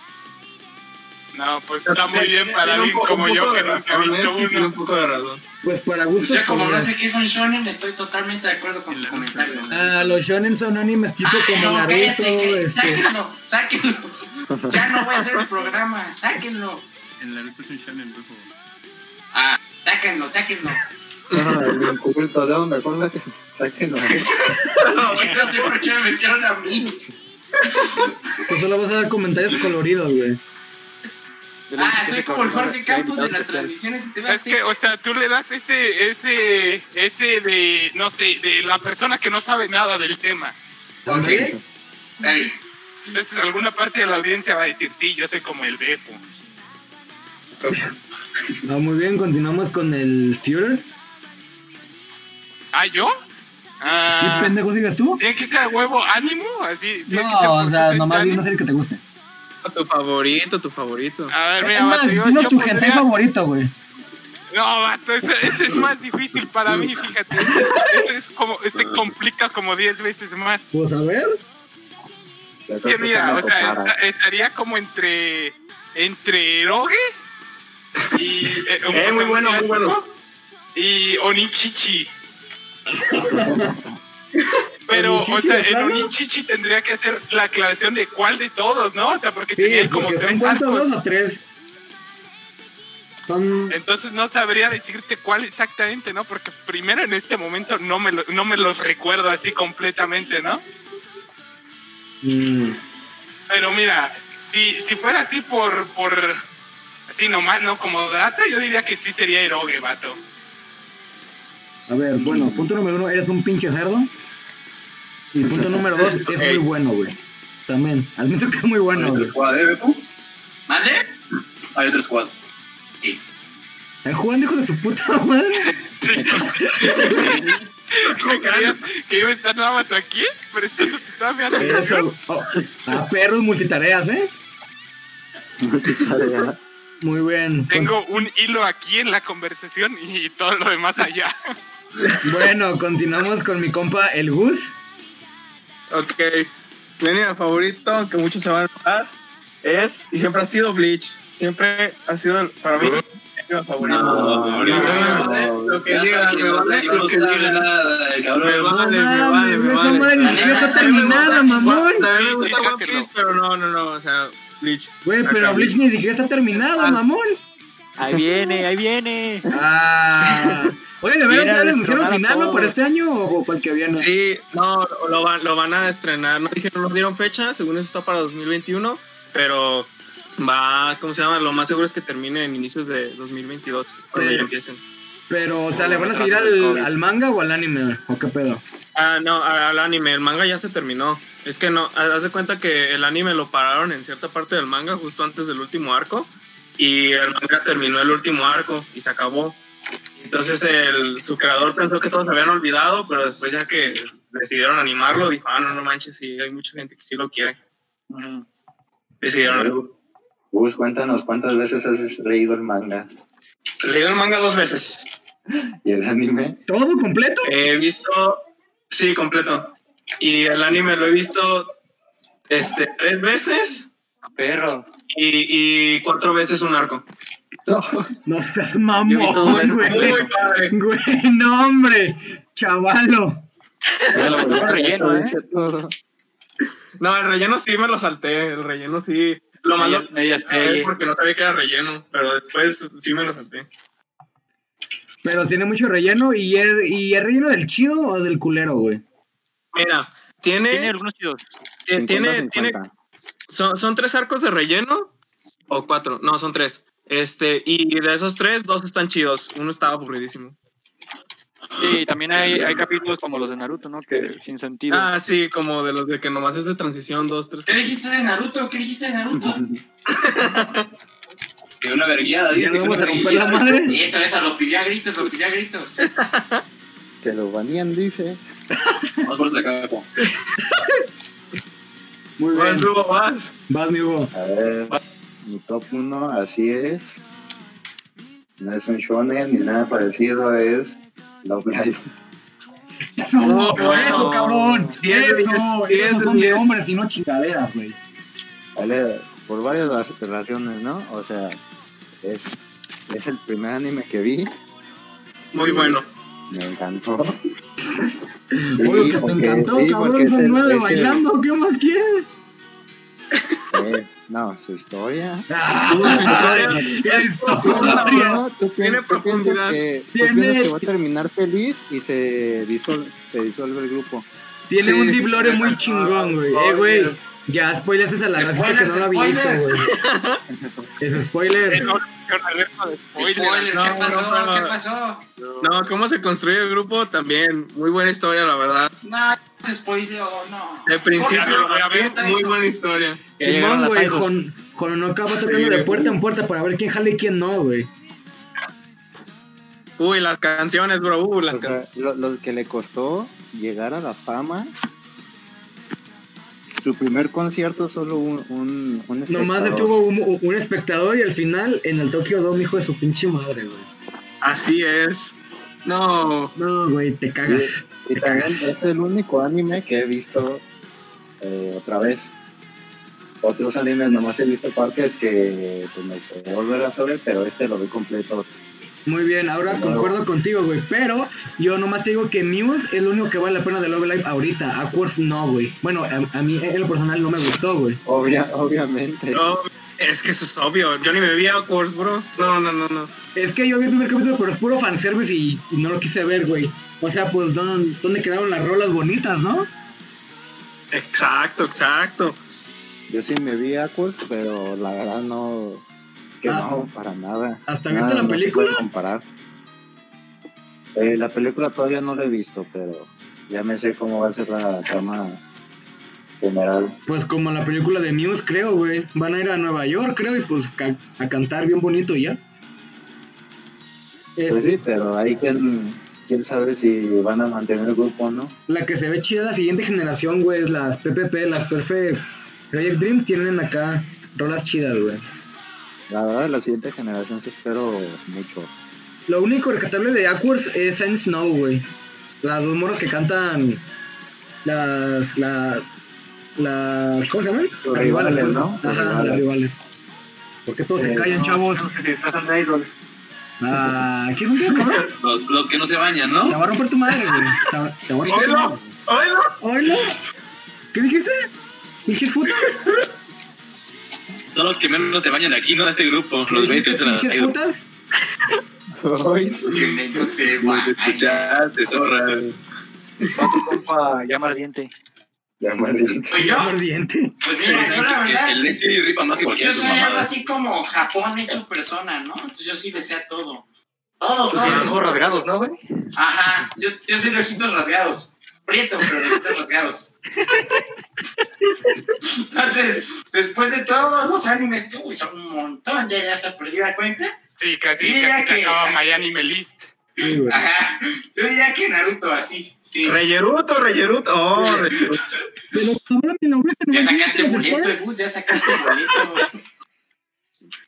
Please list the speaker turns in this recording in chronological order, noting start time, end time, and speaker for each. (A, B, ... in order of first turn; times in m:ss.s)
0:01.3-0:04.7 A
0:01.8-0:05.4 B
0:05.6-0:07.0 C
0:06.2-0:09.8 D
0:08.9-0:10.3 E
0:09.7-0:13.0 C
0:11.2-0:14.2 D
0:14.5-0:14.8 F
0:14.7-0:16.8 D
0:17.2-0:18.5 E
0:19.3-0:20.8 D
0:21.3-0:21.6 B
0:21.3-0:24.3 F
0:24.1-0:27.0 D
0:24.8-0:25.6 B
0:27.8-0:28.1 D
0:28.5-0:30.4 C
0:31.7-0:33.7 G
0:31.8-0:34.6 D
0:34.3-0:40.6 A
0:41.0-0:41.5 C
0:41.1-0:41.5 D
0:42.2-0:42.5 D
0:43.1-0:46.2 A
0:48.6-0:50.8 C
0:52.7-0:53.2 A
0:53.8-0:54.6 A
0:54.1-0:55.2 C
0:55.2-0:58.4 A
0:57.1-0:59.0 C
0:59.6-1:01.3 B
1:01.3-1:03.1 A
1:01.6-1:03.7 C
1:04.5-1:10.6 A
1:07.4-1:08.0 C
1:10.7-1:11.4 C
1:12.7-1:13.9 F
1:12.8-1:17.0 A
1:18.1-1:20.0 A
1:18.9-1:20.0 B
1:20.7-1:22.1 A
1:22.9-1:23.8 C
1:23.4-1:23.7 F
1:24.9-1:26.1 C
1:24.9-1:30.9 A
1:29.5-1:31.4 C
1:33.2-1:33.8 C
1:33.7-1:40.6 A
1:42.2-1:42.8 C
1:43.5-1:46.4 A
1:47.1-1:50.2 A
1:51.9-1:54.1 C
1:52.2-1:52.7 F
1:55.3-1:59.3 C
1:56.0-1:56.6 B
1:58.9-2:00.0 H
2:00.7-2:01.1 D
2:01.7-2:02.3 H
2:04.0-2:05.8 C
2:06.0-2:12.0 A
2:06.4-2:07.3 C
2:08.0-2:08.8 B
2:11.6-2:14.3 C
2:15.6-2:16.6 F
2:17.0-2:17.9 C
2:17.7-2:21.3 A
2:22.2-2:24.8 C
2:25.9-2:29.1 B
2:29.6-2:37.7 B
2:33.8-2:35.9 F
2:33.8-2:38.8 H
2:38.3-2:45.6 B
2:38.7-2:42.1 C
2:40.2-2:41.5 D
2:42.2-2:42.7 G
2:42.3-2:43.0 A
2:45.0-2:47.4 C
2:48.0-2:49.5 G
2:49.5-2:54.1 C
2:51.3-2:52.8 G
2:54.0-3:04.8 B
3:04.1-3:04.5 C
3:05.3-3:08.6 C
3:05.7-3:06.9 G
3:08.9-3:19.6 B
3:20.2-3:27.6 B
3:28.1-3:28.4 G
3:29.2-3:29.9 B
3:29.4-3:29.8 F
3:30.5-3:33.1 F
3:33.8-3:35.1 B
3:35.8-3:36.6 F
3:36.7-3:37.5 C
3:37.4-3:41.7 B
3:42.5-3:43.9 B
3:44.2-3:44.8 G
3:45.1-3:47.0 B
3:47.6-3:48.1 F
3:48.2-3:53.4 C
3:49.0-3:50.3 G
3:49.5-3:50.7 B
3:54.1-3:54.6 B
3:54.1-3:55.4 G
3:54.1-3:55.9 F
3:57.0-4:03.7 B
3:59.8-4:00.9 G
4:05.2-4:09.0 C
4:09.7-4:10.9 B
4:10.7-4:11.4 G
4:11.8-4:12.8 B
4:11.9-4:12.9 F
4:13.5-4:15.1 B
4:15.7-4:20.6 B
4:21.8-4:25.1 G
4:24.9-4:27.9 B
4:27.7-4:29.6 D
4:29.5-4:29.8 F
4:30.1-4:30.9 B
4:31.8-4:34.0 H
4:32.5-4:34.0 C
4:33.9-4:36.0 D
4:36.0-4:36.6 B
4:37.2-4:38.4 F
4:39.2-4:40.1 H
4:40.6-4:41.0 C
4:42.4-4:42.9 C
4:42.5-4:43.5 B
4:43.7-4:44.3 C
4:44.3-4:47.2 F
4:48.6-4:52.1 F
4:53.2-4:58.0 C
4:53.4-4:56.7 B
4:53.8-4:54.3 G
4:58.8-5:01.6 F
5:02.2-5:04.5 F
5:05.5-5:06.0 B
5:05.6-5:06.0 F
5:06.5-5:07.4 F
5:08.6-5:12.3 C
5:08.8-5:11.2 F
5:13.7-5:24.3 F
5:15.5-5:18.4 C
5:15.9-5:19.8 B
5:20.1-5:20.9 C
5:24.7-5:29.9 C
5:24.8-5:25.8 B
5:28.4-5:29.9 D
5:29.9-5:30.4 B
5:31.0-5:31.9 C
5:31.7-5:33.7 A
5:33.2-5:35.2 D
5:33.6-5:34.8 B
5:35.6-5:38.9 B
5:39.0-5:42.5 D
5:40.8-5:43.2 B
5:41.3-5:42.1 A
5:43.4-5:47.9 C
5:43.4-5:44.3 G
5:45.4-5:46.1 B
5:50.0-5:51.8 B
5:51.5-5:54.7 F
5:56.8-5:59.9 F
5:59.3-6:03.9 C
6:04.4-6:06.5 B
6:06.6-6:08.7 C
6:07.4-6:10.6 F
6:11.4-6:12.3 F
6:13.4-6:18.5 F
6:19.0-6:28.0 C
6:19.6-6:20.2 F
6:28.0-6:29.4 F
6:29.3-6:33.1 B
6:33.3-6:39.7 C
6:40.9-6:42.4 B
6:43.1-6:45.8 F
6:46.4-6:49.2 F
6:46.4-6:46.8 C
6:47.6-6:48.8 C
6:51.0-6:55.4 F
6:56.4-6:57.0 F
6:57.0-7:02.4 C
7:04.4-7:04.8 C
7:04.5-7:08.6 F
7:08.7-7:15.2 C
7:16.1-7:18.7 F
7:19.3-7:21.9 C
7:22.4-7:23.8 C
7:24.6-7:25.9 C
7:26.6-7:29.8 C
7:27.8-7:29.4 F
7:30.6-7:31.9 C
7:31.0-7:31.2 F
7:31.2-7:32.9 G
7:33.6-7:35.1 C
7:35.2-7:36.6 H
7:36.5-7:38.8 C
7:38.2-7:39.5 B
7:39.6-7:40.2 C
7:40.9-7:41.5 C
7:42.0-7:42.8 C
7:44.5-7:47.5 H
7:46.4-7:47.9 C
7:49.0-7:50.2 F
7:49.6-7:51.5 D
7:50.6-7:52.5 H
7:53.3-7:54.9 G
7:55.6-7:56.5 F
7:56.3-7:56.7 D
7:56.4-7:57.4 C
7:57.4-7:58.6 D
7:57.5-8:00.3 H
7:59.4-8:03.6 D
8:04.2-8:05.0 D
8:04.5-8:05.8 G
8:04.6-8:04.9 B
8:06.2-8:10.1 D
8:12.2-8:17.3 D
8:17.6-8:19.9 A
8:18.0-8:19.0 D
8:20.2-8:20.6 C
8:20.3-8:23.2 D
8:23.0-8:25.2 B
8:24.6-8:25.0 D
8:25.7-8:28.0 C
8:26.9-8:29.5 D